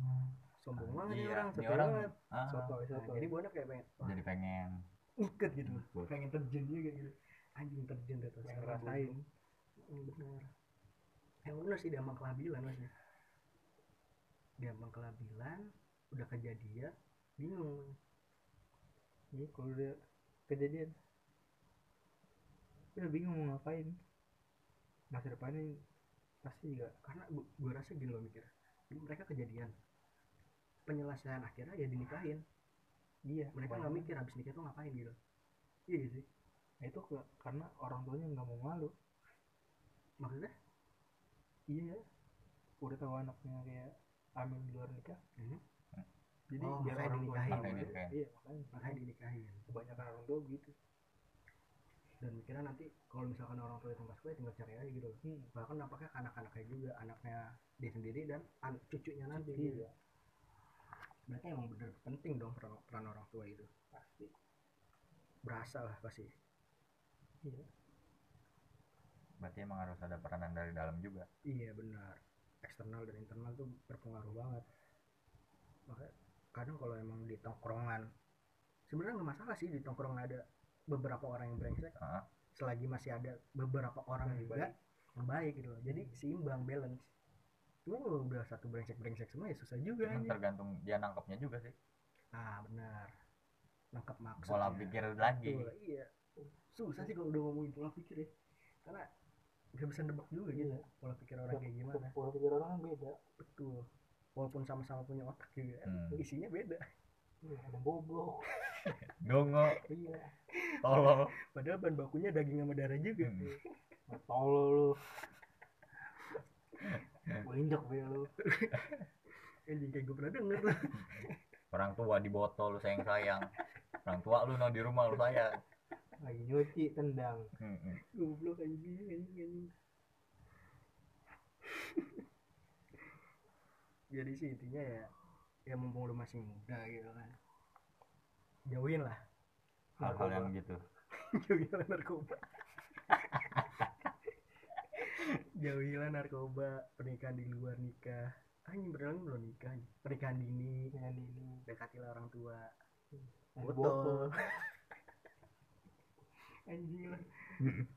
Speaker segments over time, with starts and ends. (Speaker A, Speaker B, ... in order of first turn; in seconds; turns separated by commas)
Speaker A: 0.6-2.1, Speaker B: 0.8-2.8, Speaker C: 2.5-3.3, Speaker A: 2.9-4.2, Speaker B: 4.0-4.8, Speaker A: 5.2-9.2, Speaker B: 5.6-6.1, Speaker C: 8.4-9.2, Speaker A: 9.8-10.5, Speaker A: 11.4-12.9, Speaker A: 14.6-17.9, Speaker C: 19.3-21.0, Speaker C: 22.9-24.0, Speaker C: 25.1-25.8, Speaker C: 26.4-26.9, Speaker A: 27.0-29.7, Speaker A: 30.9-32.4, Speaker C: 33.3-34.1, Speaker A: 33.5-35.2, Speaker A: 35.9-36.2, Speaker C: 36.8-38.9, Speaker A: 40.2-40.5, Speaker C: 41.7-42.1, Speaker C: 42.8-45.2, Speaker C: 46.5-49.0, Speaker A: 46.6-48.0, Speaker B: 47.5-48.2, Speaker A: 48.7-49.7, Speaker C: 49.7-50.8, Speaker A: 52.2-59.9, Speaker C: 55.2-55.5, Speaker C: 59.3-59.9, Speaker A: 61.3-63.7, Speaker C: 63.9-64.3, Speaker A: 65.5-66.3, Speaker B: 69.4-71.3, Speaker A: 71.5-74.7, Speaker A: 75.9-78.1, Speaker A: 78.9-82.0, Speaker B: 82.0-82.3, Speaker A: 82.6-87.1, Speaker C: 84.2-84.7, Speaker C: 85.9-86.2, Speaker A: 87.9-90.4, Speaker B: 90.0-91.8, Speaker A: 92.3-93.1, Speaker A: 93.9-96.1, Speaker B: 94.4-95.7, Speaker A: 96.7-98.3, Speaker A: 99.8-102.1, Speaker C: 100.5-100.8, Speaker C: 101.5-103.2, Speaker A: 103.4-106.9, Speaker B: 105.9-106.2, Speaker C: 107.4-108.5, Speaker A: 108.5-109.0, Speaker B: 109.0-109.8, Speaker C: 109.9-110.3, Speaker A: 110.5-113.7, Speaker B: 110.8-111.3, Speaker B: 113.2-113.6, Speaker C: 114.1-115.0, Speaker C: 117.4-118.3, Speaker A: 118.4-121.3, Speaker B: 121.0-123.5, Speaker B: 124.0-125.6, Speaker C: 126.2-127.5, Speaker B: 127.6-128.0, Speaker A: 128.0-129.7, Speaker A: 131.7-132.2, Speaker A: 134.1-135.1, Speaker A: 135.7-137.4, Speaker A: 138.7-139.2, Speaker B: 140.0-140.8, Speaker C: 140.0-140.4, Speaker A: 140.1-140.4, Speaker A: 141.2-143.7, Speaker A: 144.9-150.9, Speaker C: 150.9-151.6, Speaker A: 151.7-152.7, Speaker C: 153.1-154.3, Speaker A: 153.6-154.7, Speaker A: 156.7-157.8